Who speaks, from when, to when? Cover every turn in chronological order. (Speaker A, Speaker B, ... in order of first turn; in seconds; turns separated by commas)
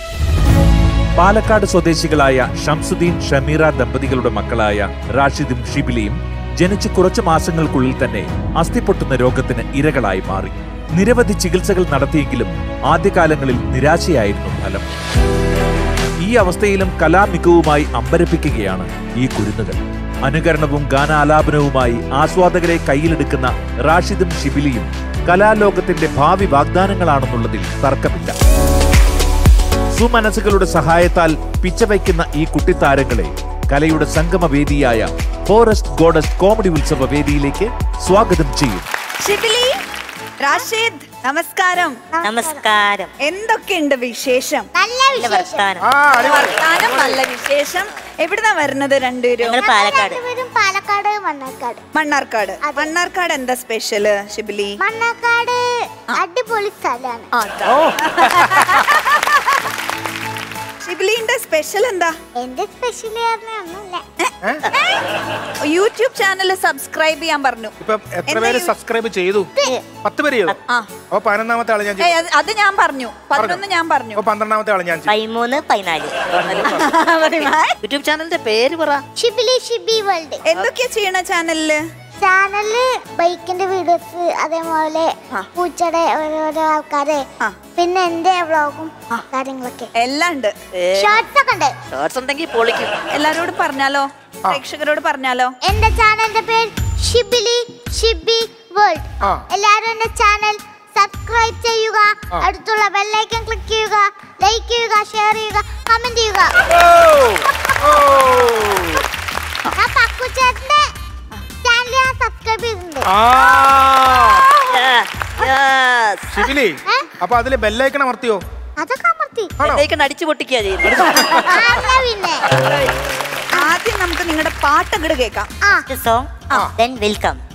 Speaker A: 1.2-14.9, Speaker A: 16.2-28.3, Speaker A: 29.9-38.9, Speaker B: 39.2-39.7, Speaker B: 40.4-41.9, Speaker C: 42.1-42.6, Speaker D: 42.2-43.1, Speaker B: 43.2-44.7, Speaker C: 44.7-45.7, Speaker D: 45.1-45.8, Speaker E: 45.8-46.6, Speaker B: 46.1-49.6, Speaker F: 46.8-47.2, Speaker D: 49.4-50.2, Speaker C: 49.6-51.8, Speaker B: 51.9-54.8, Speaker C: 52.6-52.9, Speaker C: 54.8-55.6, Speaker C: 56.1-57.3, Speaker B: 57.3-59.4, Speaker E: 57.6-58.6, Speaker B: 60.8-62.1, Speaker C: 62.4-64.0, Speaker B: 64.2-65.0, Speaker B: 65.7-67.7, Speaker E: 67.8-69.5, Speaker B: 68.3-68.7, Speaker E: 70.0-70.6, Speaker E: 71.1-72.3, Speaker B: 72.0-74.2, Speaker E: 73.3-73.6, Speaker E: 74.2-75.1, Speaker D: 75.1-76.1, Speaker F: 76.3-79.0, Speaker B: 76.6-77.7, Speaker E: 76.7-76.9, Speaker C: 79.2-80.5, Speaker B: 80.5-81.8, Speaker C: 82.2-87.2, Speaker C: 87.8-89.9, Speaker B: 90.0-90.5, Speaker F: 90.8-91.2, Speaker C: 90.9-91.7, Speaker F: 91.9-92.9, Speaker B: 93.1-95.5, Speaker C: 95.7-106.6, Speaker E: 106.7-109.0, Speaker C: 109.7-110.9, Speaker C: 111.6-113.6, Speaker E: 113.1-114.5, Speaker F: 114.7-116.4, Speaker E: 116.3-118.4, Speaker C: 118.8-119.5, Speaker F: 119.6-121.4, Speaker E: 121.0-121.4, Speaker B: 121.0-121.7, Speaker C: 121.4-122.5, Speaker B: 122.6-122.9, Speaker B: 123.5-125.5, Speaker C: 125.6-125.9, Speaker D: 125.9-127.4